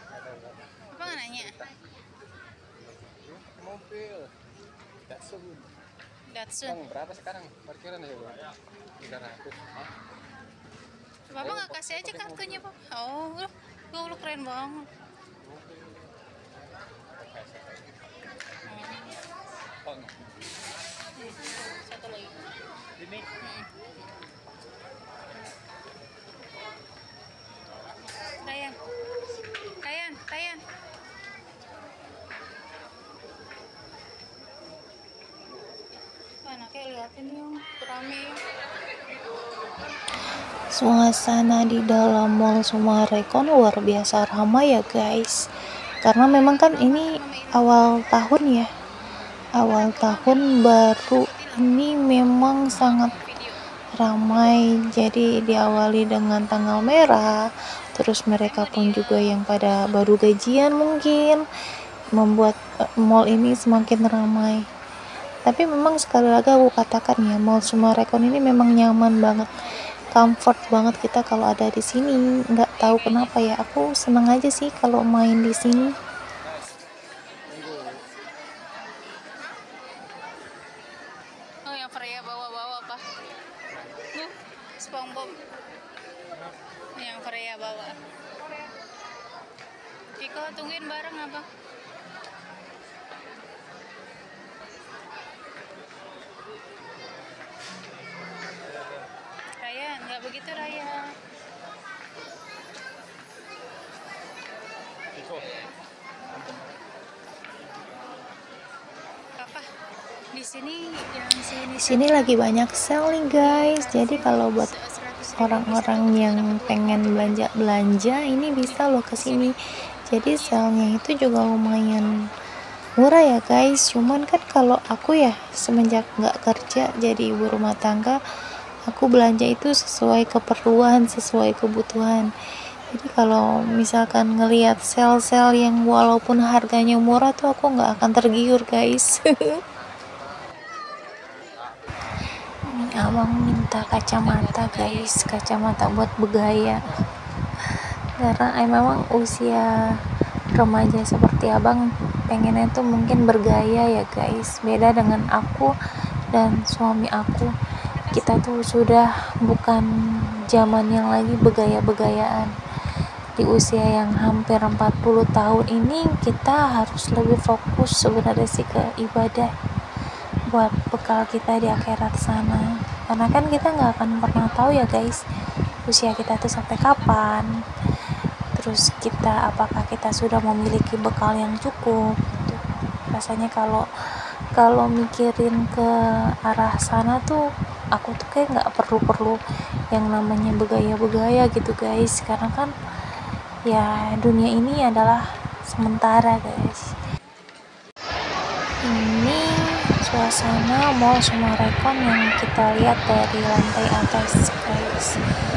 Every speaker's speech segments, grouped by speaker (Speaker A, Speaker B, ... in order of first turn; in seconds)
Speaker A: 0.2-1.7, 2.9-4.3, 5.1-5.7, 6.6-9.9, 11.4-12.7, 15.4-16.0, 17.4-17.9, 77.5-78.0
Speaker B: 0.9-1.6, 6.3-6.8, 11.3-14.9, 18.7-19.2, 21.2-22.3, 23.4-23.7, 28.3-28.8, 29.8-30.6, 36.4-38.4, 46.4-47.7, 49.7-51.8, 53.1-53.6, 58.5-59.4, 72.9-73.3, 81.7-83.0, 84.1-85.3, 87.0-88.0, 90.2-91.5, 99.6-101.0, 109.4-109.7, 110.3-112.3, 113.3-117.4, 120.2-120.6, 143.8-145.2, 158.0-158.3
Speaker C: 40.7-45.4, 46.0-48.7, 49.6-53.1, 54.0-57.3, 58.0-61.4, 62.2-62.5, 63.1-64.6, 65.5-69.5, 70.1-75.9, 111.8-114.7, 115.4-119.5, 120.1-122.2, 123.0-128.2, 128.9-132.3, 132.9-139.3, 142.7-146.8, 148.2-149.7, 150.6-155.7, 156.3-157.5, 158.2-159.9, 160.5-162.5, 163.4-169.5, 170.5-175.2, 175.9-177.5, 178.6-182.6, 183.1-183.9, 184.6-185.9, 186.5-187.4, 188.0-189.4, 189.9-192.7, 193.7-196.9, 198.9-199.4, 200.0-205.1